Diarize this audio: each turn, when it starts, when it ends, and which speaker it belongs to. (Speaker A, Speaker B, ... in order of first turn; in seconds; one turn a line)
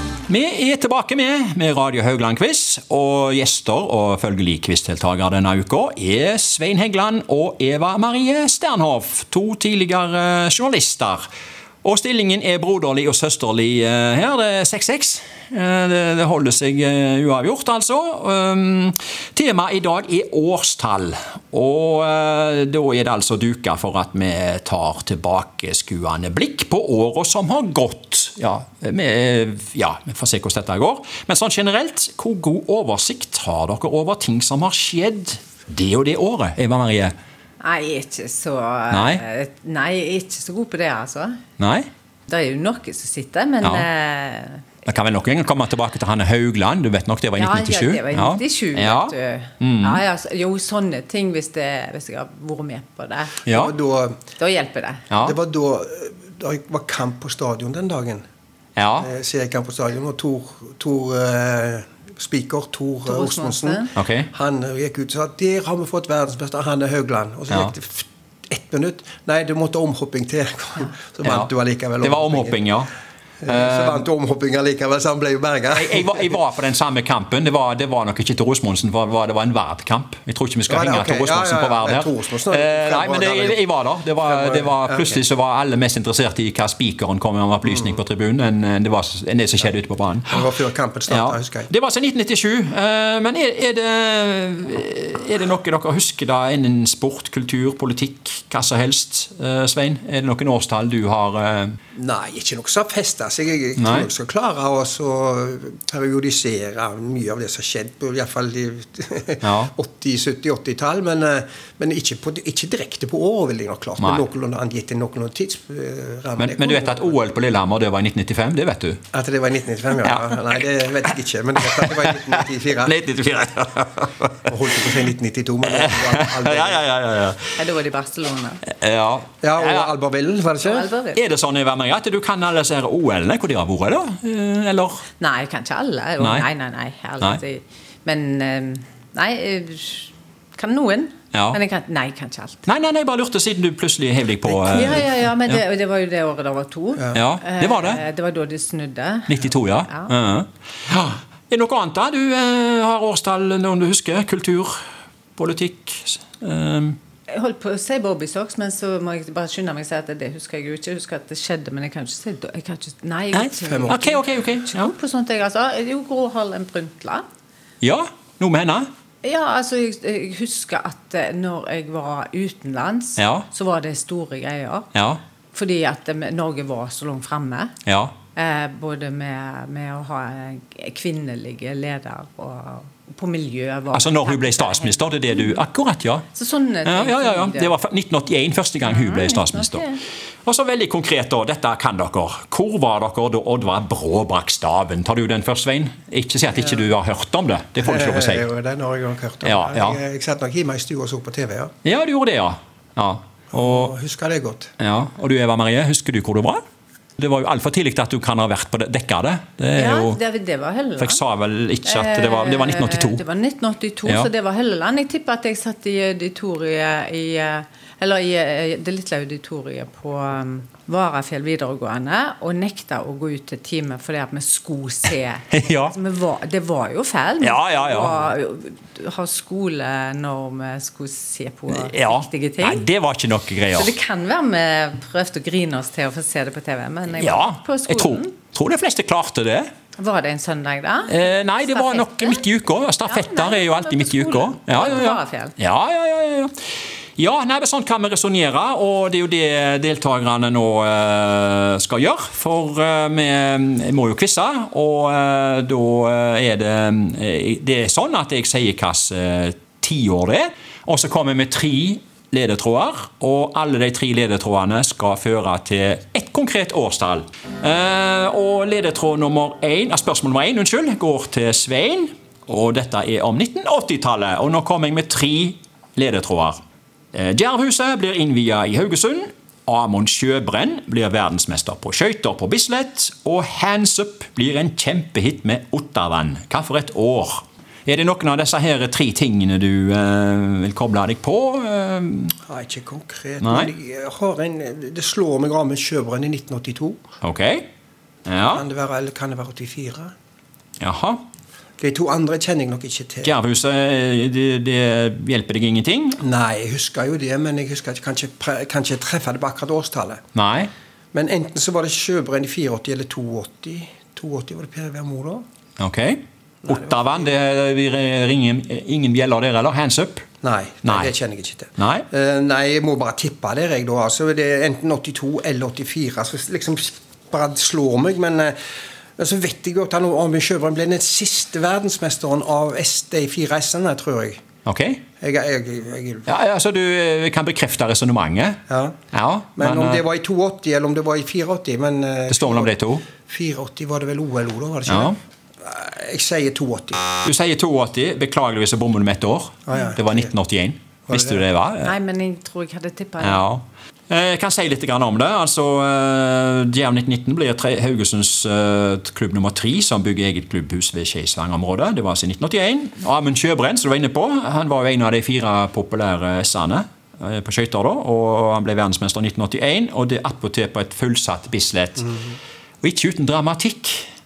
Speaker A: 0.3-11.2
Speaker A: 11.8-37.1
Speaker B: 37.6-41.4
Speaker A: 38.9-39.2
Speaker A: 41.6-41.9
Speaker B: 42.3-44.7
Speaker A: 44.8-50.0
Speaker B: 47.4-53.4
Speaker A: 53.5-53.7
Speaker C: 53.5-54.2
Speaker B: 54.4-55.1
Speaker A: 55.1-55.4
Speaker C: 55.2-58.2
Speaker A: 58.8-59.1
Speaker C: 59.0-72.6
Speaker B: 63.1-63.9
Speaker A: 63.9-64.3
Speaker A: 71.2-71.5
Speaker A: 72.0-72.9
Speaker C: 73.4-76.2
Speaker A: 73.5-74.0
Speaker A: 75.7-90.5
Speaker C: 80.7-83.6
Speaker C: 84.2-85.2
Speaker C: 90.3-91.7
Speaker A: 91.1-101.8
Speaker C: 101.9-117.2
Speaker A: 103.8-104.1
Speaker A: 109.4-109.7
Speaker A: 114.0-114.2
Speaker A: 116.4-119.0
Speaker C: 119.1-122.9
Speaker A: 120.0-120.6
Speaker A: 121.6-124.5
Speaker C: 124.5-126.8
Speaker A: 125.7-127.6
Speaker B: 127.5-128.6
Speaker A: 128.8-129.9
Speaker C: 129.4-130.9
Speaker B: 130.6-131.2
Speaker A: 131.1-135.0
Speaker B: 135.2-142.6
Speaker A: 136.2-136.5
Speaker A: 141.3-141.6
Speaker A: 142.7-145.6
Speaker B: 144.6-150.1
Speaker A: 147.1-148.0
Speaker A: 149.3-154.8
Speaker A: 155.3-157.0
Speaker B: 157.3-167.2
Speaker A: 163.3-164.9
Speaker C: 163.6-164.0
Speaker A: 167.8-168.9
Speaker B: 169.2-174.9
Speaker A: 173.2-173.4
Speaker A: 174.9-175.2
Speaker B: 175.5-177.8
Speaker A: 177.8-178.1
Speaker B: 178.3-185.6
Speaker A: 183.9-186.2
Speaker B: 186.3-187.7
Speaker A: 186.8-189.8
Speaker B: 188.8-190.0
Speaker A: 190.4-198.4
Speaker C: 197.8-201.7
Speaker A: 199.4-200.0
Speaker A: 201.8-203.9
Speaker C: 203.5-204.7
Speaker A: 204.8-206.6
Speaker A: 207.2-210.2
Speaker B: 209.7-211.2
Speaker A: 211.0-213.2
Speaker B: 211.8-232.8
Speaker A: 225.5-225.9
Speaker A: 227.4-228.2
Speaker A: 231.7-233.9
Speaker B: 233.7-238.3
Speaker A: 237.2-239.7
Speaker B: 240.0-245.6
Speaker A: 241.1-246.5
Speaker A: 247.2-276.6
Speaker A: 277.1-292.4
Speaker C: 292.5-297.0
Speaker A: 293.4-293.7
Speaker A: 297.2-297.6
Speaker A: 298.3-298.6
Speaker C: 298.5-300.1
Speaker A: 300.8-301.2
Speaker C: 301.8-303.3
Speaker A: 303.2-306.2
Speaker C: 306.2-310.2
Speaker A: 310.3-310.7
Speaker C: 311.1-315.4
Speaker A: 315.8-320.2
Speaker C: 316.6-317.3
Speaker C: 320.4-328.6
Speaker A: 320.8-321.1
Speaker A: 321.8-322.1
Speaker C: 329.2-334.4
Speaker A: 334.6-335.0
Speaker C: 335.2-336.3
Speaker A: 336.3-338.6
Speaker C: 338.7-339.0
Speaker A: 339.1-340.0
Speaker C: 339.6-347.0
Speaker A: 342.3-343.1
Speaker A: 344.9-345.2
Speaker A: 347.2-351.9
Speaker C: 349.7-350.3
Speaker C: 351.1-351.4
Speaker B: 351.8-353.4
Speaker A: 353.2-372.1
Speaker A: 372.8-374.1